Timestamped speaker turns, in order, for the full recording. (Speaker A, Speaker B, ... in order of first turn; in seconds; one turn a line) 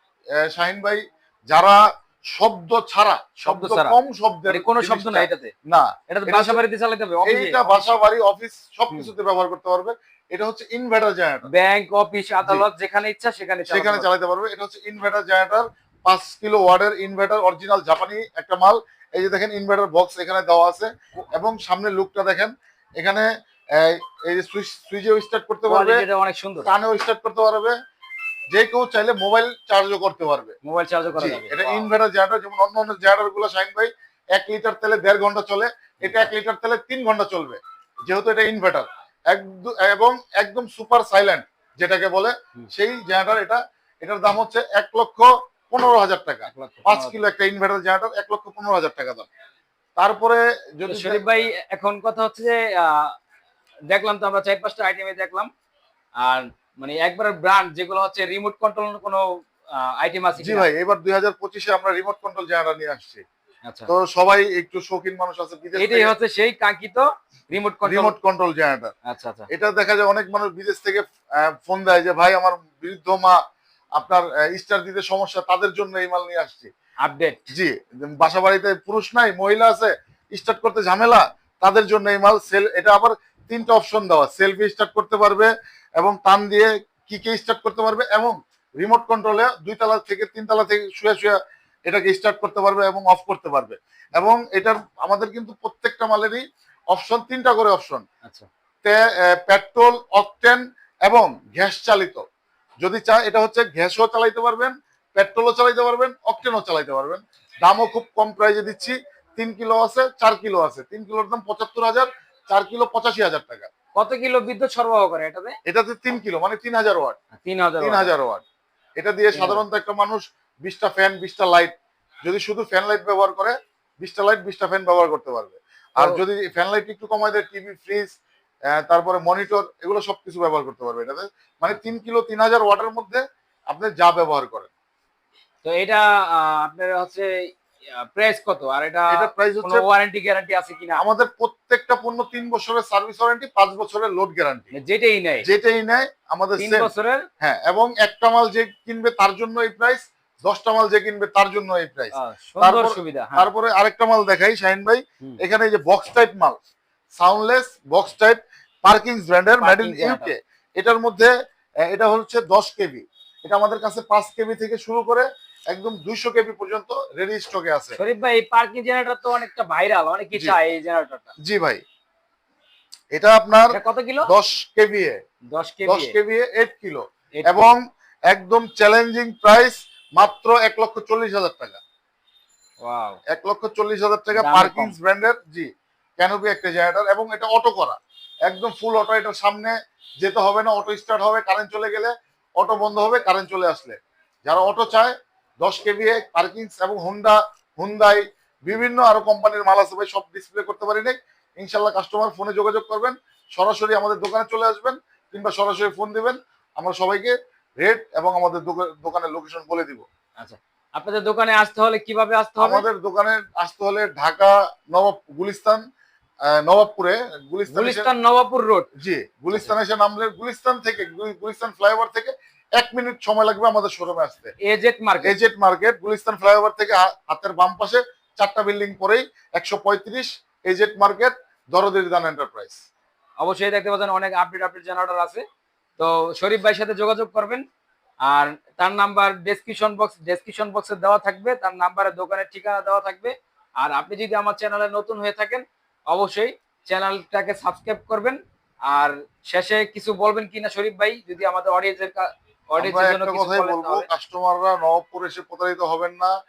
Speaker A: 0.4-6.6
Speaker B: 3.5-4.0
Speaker B: 4.5-5.5
Speaker B: 6.1-7.9
Speaker A: 7.2-11.5
Speaker B: 11.5-14.1
Speaker A: 13.7-26.1
Speaker B: 25.7-26.7
Speaker A: 26.6-27.8
Speaker A: 28.5-30.6
Speaker B: 30.6-31.9
Speaker A: 31.2-49.3
Speaker B: 36.0-36.3
Speaker B: 46.5-47.2
Speaker A: 50.0-51.2
Speaker B: 50.9-53.1
Speaker B: 53.9-55.5
Speaker B: 56.2-60.7
Speaker A: 60.4-63.2
Speaker A: 63.9-66.1
Speaker B: 65.8-68.1
Speaker A: 67.8-68.9
Speaker B: 69.0-69.5
Speaker A: 69.5-73.4
Speaker A: 74.0-76.7
Speaker B: 77.0-77.5
Speaker A: 77.5-98.0
Speaker A: 98.8-102.2
Speaker A: 102.8-113.7
Speaker B: 114.0-115.6
Speaker A: 115.7-117.2
Speaker B: 117.4-118.1
Speaker A: 117.8-118.4
Speaker A: 119.0-121.7
Speaker B: 119.3-119.6
Speaker A: 122.2-128.2
Speaker A: 128.7-134.7
Speaker B: 135.6-141.0
Speaker A: 139.1-139.8
Speaker A: 141.0-144.7
Speaker B: 144.7-145.5
Speaker A: 145.4-146.9
Speaker B: 146.6-147.3
Speaker A: 147.4-156.6
Speaker B: 152.1-153.5
Speaker A: 157.2-161.3
Speaker B: 159.6-160.3
Speaker A: 161.9-168.0
Speaker B: 167.9-171.3
Speaker A: 171.4-171.8
Speaker A: 173.1-173.8
Speaker B: 173.7-174.3
Speaker A: 174.3-175.2
Speaker B: 175.5-176.2
Speaker A: 175.9-181.8
Speaker B: 177.3-177.8
Speaker B: 182.8-183.2
Speaker A: 183.3-185.7
Speaker B: 184.3-184.9
Speaker A: 186.2-210.1
Speaker B: 210.4-212.9
Speaker A: 212.6-215.8
Speaker A: 216.5-218.1
Speaker B: 217.7-218.9
Speaker A: 219.0-224.5
Speaker B: 224.6-225.3
Speaker A: 225.2-232.8
Speaker B: 233.4-235.4
Speaker B: 236.0-237.7
Speaker B: 238.2-254.1
Speaker A: 252.8-256.3